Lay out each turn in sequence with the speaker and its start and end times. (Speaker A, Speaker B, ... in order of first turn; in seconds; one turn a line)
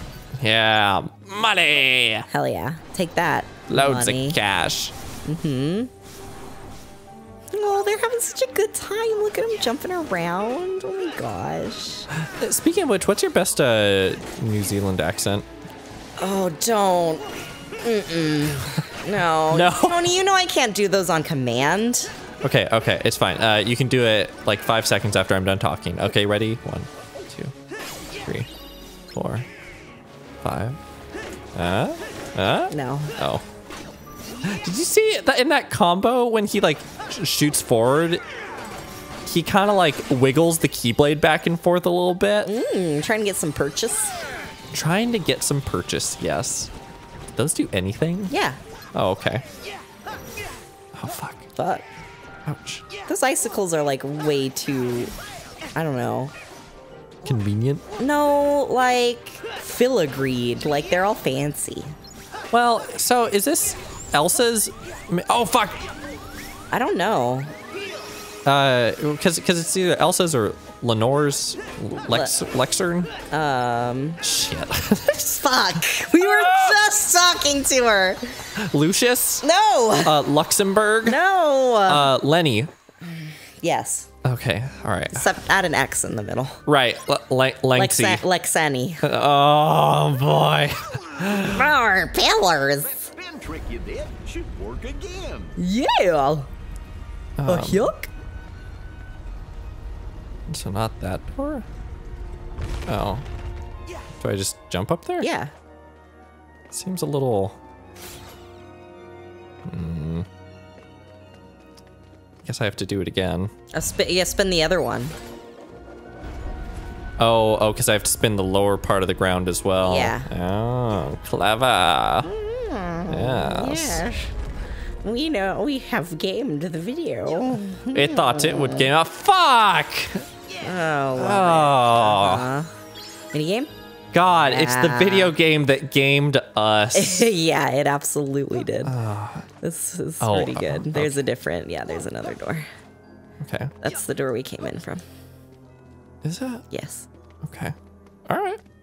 Speaker A: 0.4-2.3
Speaker B: 2.3-4.4
Speaker A: 3.7-4.9
Speaker B: 5.2-5.9
Speaker B: 7.5-12.1
Speaker A: 12.2-15.5
Speaker B: 16.2-17.3
Speaker B: 17.8-22.1
Speaker A: 19.5-20.1
Speaker A: 22.4-27.5
Speaker A: 29.1-29.5
Speaker A: 30.4-30.8
Speaker A: 31.6-33.4
Speaker B: 32.7-33.1
Speaker A: 34.4-38.2
Speaker A: 39.2-42.5
Speaker B: 42.5-44.1
Speaker A: 44.7-46.7
Speaker A: 47.4-48.3
Speaker B: 48.3-48.6
Speaker A: 48.9-49.4
Speaker A: 50.9-51.5
Speaker B: 51.6-51.9
Speaker A: 52.5-52.9
Speaker B: 53.1-55.1
Speaker B: 55.8-56.3
Speaker A: 57.2-57.8
Speaker B: 58.0-62.0
Speaker A: 62.5-65.9
Speaker B: 66.7-67.5
Speaker A: 68.5-73.1
Speaker B: 72.1-72.4
Speaker B: 73.3-74.2
Speaker A: 74.2-76.8
Speaker B: 75.4-78.2
Speaker A: 78.6-79.5
Speaker B: 79.4-80.2
Speaker A: 80.0-81.2
Speaker B: 81.0-82.1
Speaker A: 81.9-82.7
Speaker B: 83.1-84.1
Speaker A: 84.2-85.3
Speaker B: 85.1-86.6
Speaker A: 86.7-88.2
Speaker B: 87.8-89.0
Speaker A: 89.0-91.7
Speaker B: 91.3-93.1
Speaker C: 92.8-95.6
Speaker B: 95.6-96.5
Speaker A: 97.4-97.9
Speaker B: 97.5-98.1
Speaker A: 100.5-101.7
Speaker A: 102.9-103.2
Speaker A: 104.2-105.3
Speaker B: 105.2-105.5
Speaker A: 106.7-107.6
Speaker A: 109.7-110.3
Speaker A: 112.4-113.5
Speaker B: 113.7-115.2
Speaker A: 117.2-122.3
Speaker B: 119.8-120.3
Speaker B: 122.2-124.3
Speaker A: 123.1-124.0
Speaker B: 125.0-128.9
Speaker A: 127.9-130.2
Speaker B: 130.6-132.7
Speaker A: 131.2-132.5
Speaker B: 133.3-133.7
Speaker A: 134.1-137.3
Speaker B: 134.5-135.3
Speaker B: 136.9-138.9
Speaker A: 138.8-139.5
Speaker B: 139.6-142.7
Speaker A: 140.2-141.2
Speaker A: 143.4-143.7
Speaker B: 143.8-145.0
Speaker A: 146.2-146.7
Speaker B: 146.7-147.1
Speaker A: 147.4-147.8
Speaker A: 148.3-148.6